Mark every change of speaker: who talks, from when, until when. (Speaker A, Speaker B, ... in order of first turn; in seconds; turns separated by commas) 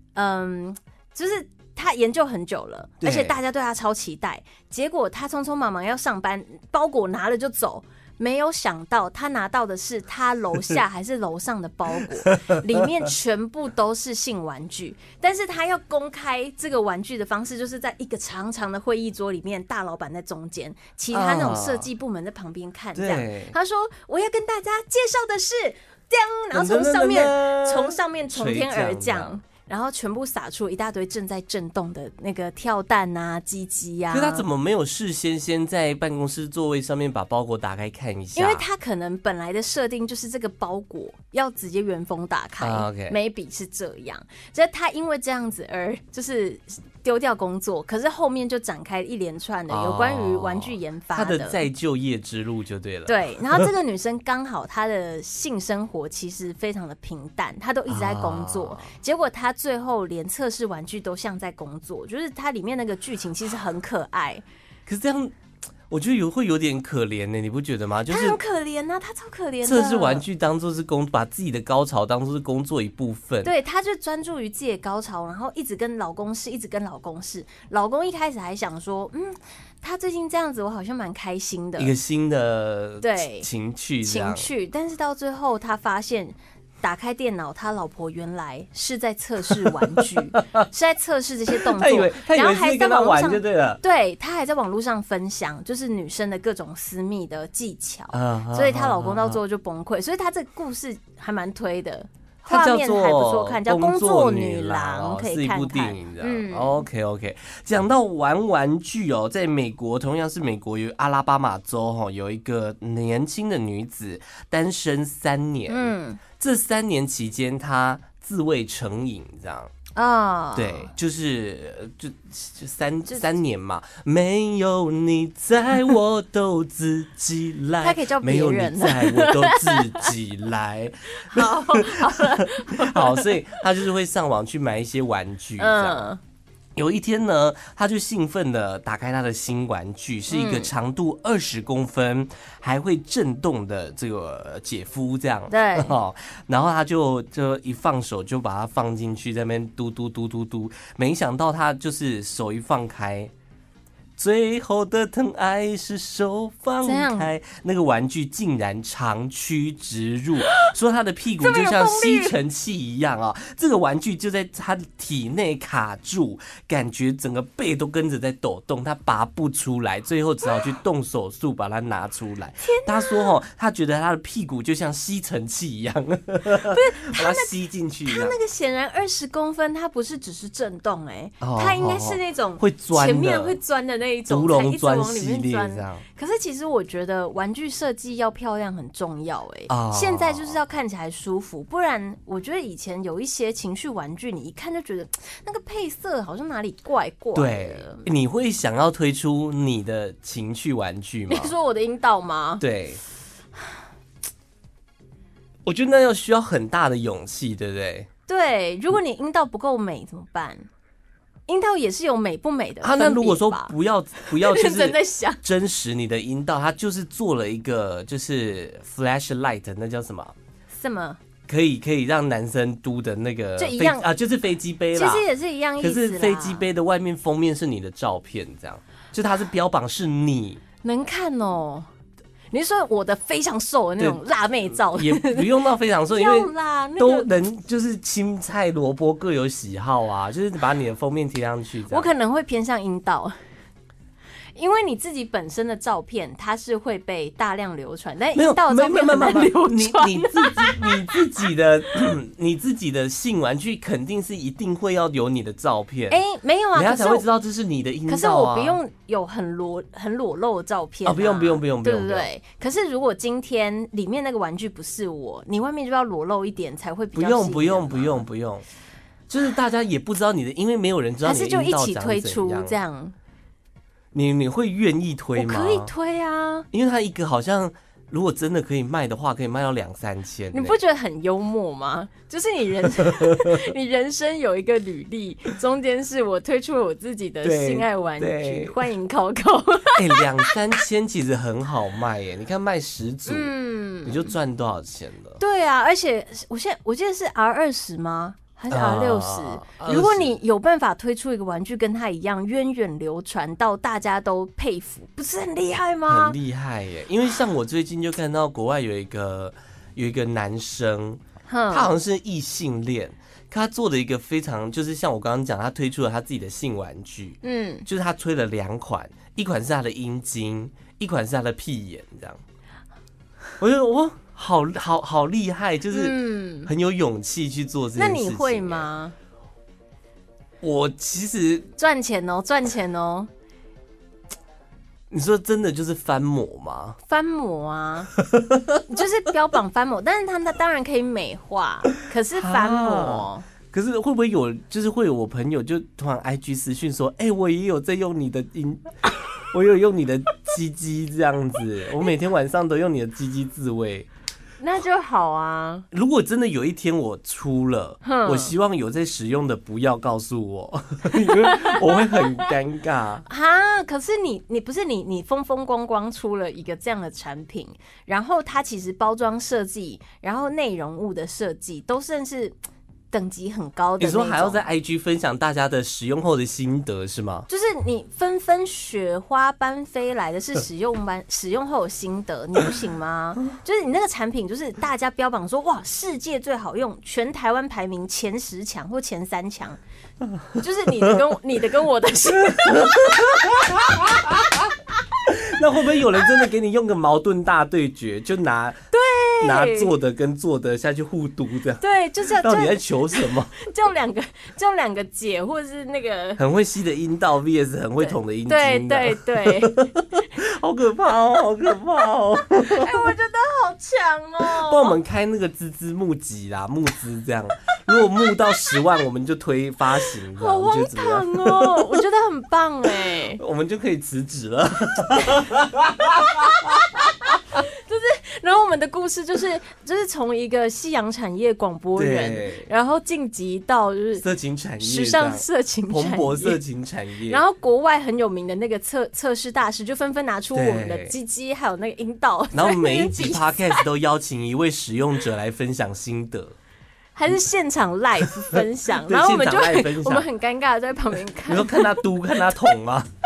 Speaker A: 0.1-34.5, Speaker B: 3.0-3.4, Speaker B: 21.1-21.9, Speaker B: 22.9-23.5, Speaker B: 26.5-29.3, Speaker B: 34.1-38.6, Speaker A: 38.4-51.6, Speaker B: 42.6-43.2, Speaker B: 49.7-53.7, Speaker A: 53.1-64.4, Speaker B: 57.9-58.9, Speaker B: 64.9-65.3, Speaker B: 65.9-68.4, Speaker A: 68.1-70.2, Speaker B: 69.6-73.5, Speaker A: 73.4-81.9, Speaker B: 81.8-84.5, Speaker A: 83.0-83.5, Speaker A: 84.0-106.8, Speaker B: 90.0-90.6, Speaker B: 91.5-93.8, Speaker B: 98.1-99.4, Speaker B: 102.4-119.7, Speaker A: 115.7-116.2, Speaker A: 120.0-120.9, Speaker B: 120.5-136.1, Speaker A: 127.8-130.1, Speaker A: 131.1-133.3, Speaker A: 135.6-136.2, Speaker B: 136.8-153.3, Speaker A: 140.3-140.7, Speaker A: 145.5-145.9, Speaker B: 154.2-178.4, Speaker A: 156.8-157.3, Speaker A: 161.4-162.3, Speaker A: 172.6-173.3, Speaker A: 176.7-177.5, Speaker A: 178.1-198.1, Speaker B: 181.4-183.6, Speaker B: 184.3-186.0, Speaker B: 189.7-190.6, Speaker B: 197.3-201.5, Speaker A: 201.3-202.6, Speaker B: 202.6-203.0, Speaker B: 205.6-208.1, Speaker A: 208.3-210.7, Speaker A: 211.5-215.4, Speaker B: 212.8-220.3, Speaker A: 220.7-221.2, Speaker B: 221.5-225.3, Speaker A: 223.6-224.1, Speaker A: 224.9-226.6, Speaker B: 225.8-230.6, Speaker A: 230.8-231.9, Speaker A: 232.5-235.5, Speaker B: 234.7-242.1, Speaker A: 236.1-237.3, Speaker A: 241.9-243.3, Speaker A: 244.6-251.4, Speaker B: 248.3-256.2, Speaker A: 256.1-257.2, Speaker B: 256.8-258.8, Speaker A: 258.1-268.2, Speaker B: 261.0-262.3, Speaker B: 267.1-268.6, Speaker B: 269.3-272.8, Speaker A: 271.2-273.1, Speaker B: 274.1-275.9, Speaker A: 275.4-276.7, Speaker B: 276.7-280.8, Speaker A: 280.5-290.6, Speaker B: 283.0-283.7, Speaker B: 287.4-288.8, Speaker B: 289.9-293.5, Speaker A: 293.3-294.3, Speaker B: 294.0-295.4, Speaker A: 295.4-306.4, Speaker B: 298.7-300.4, Speaker B: 306.1-322.4, Speaker A: 311.5-311.9, Speaker A: 317.4-317.9, Speaker B: 323.6-328.9, Speaker A: 325.9-326.7, Speaker A: 327.9-329.1, Speaker B: 330.6-331.7, Speaker A: 331.8-333.3, Speaker B: 335.1-337.0, Speaker A: 337.1-338.1, Speaker B: 338.2-338.8, Speaker A: 338.9-343.5, Speaker B: 342.3-354.1, Speaker A: 354.6-355.9, Speaker B: 355.9-363.2, Speaker A: 358.0-358.5, Speaker A: 361.2-362.5, Speaker A: 363.3-372.6, Speaker A: 373.1-374.6, Speaker B: 374.0-377.5, Speaker A: 377.5-389.8, Speaker B: 390.3-391.1, Speaker A: 390.6-394.2, Speaker B: 392.4-394.7, Speaker B: 395.2-398.8, Speaker A: 398.9-399.9, Speaker B: 399.4-403.6, Speaker A: 401.8-406.4, Speaker B: 406.4-413.1, Speaker A: 408.0-409.9, Speaker A: 412.6-415.0, Speaker B: 414.4-422.0, Speaker A: 420.3-423.4, Speaker B: 423.1-427.1, Speaker A: 426.1-434.2, Speaker B: 431.9-432.7, Speaker B: 434.2-437.4, Speaker A: 434.8-436.6, Speaker A: 437.3-443.8, Speaker B: 440.5-441.1, Speaker B: 442.5-446.5, Speaker A: 447.1-452.0, Speaker B: 448.5-450.3, Speaker B: 451.4-453.1